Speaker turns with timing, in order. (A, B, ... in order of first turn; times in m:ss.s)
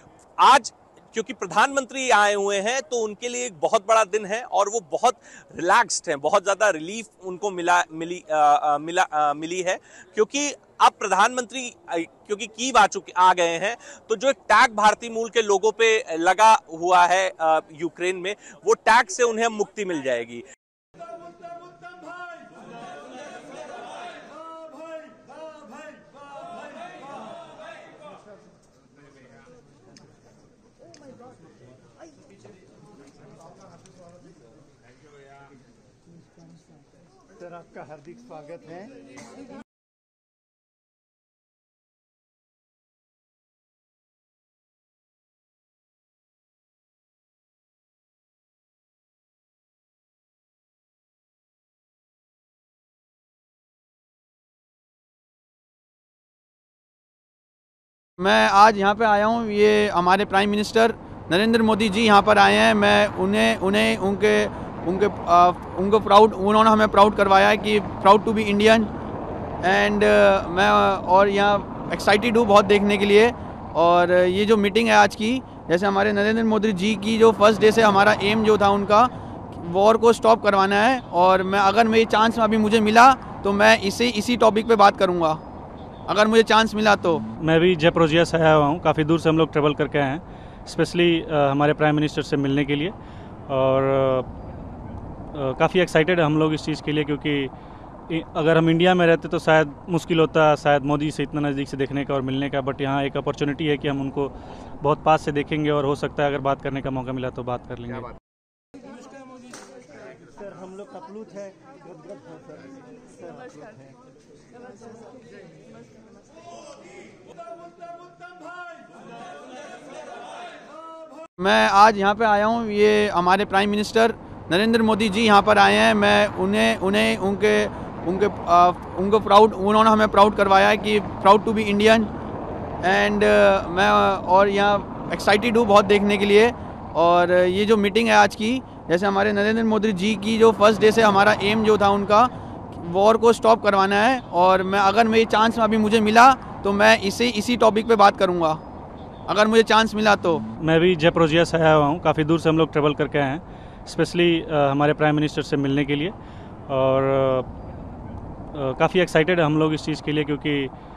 0:00.4-0:20.4 A
0:37.9-0:38.8 B
0:58.2-1:08.9 C
1:09.6-1:25.4 C
1:26.1-1:27.2 C
1:27.4-1:32.9 D
1:33.5-1:34.3 D
1:35.3-1:37.5 D
1:38.1-1:48.1 D
1:50.6-1:52.2 B
2:01.4-2:12.1 C
2:12.8-2:28.6 C
2:29.3-2:30.4 C
2:30.6-2:36.1 D
2:36.7-2:37.5 D
2:38.5-2:40.7 D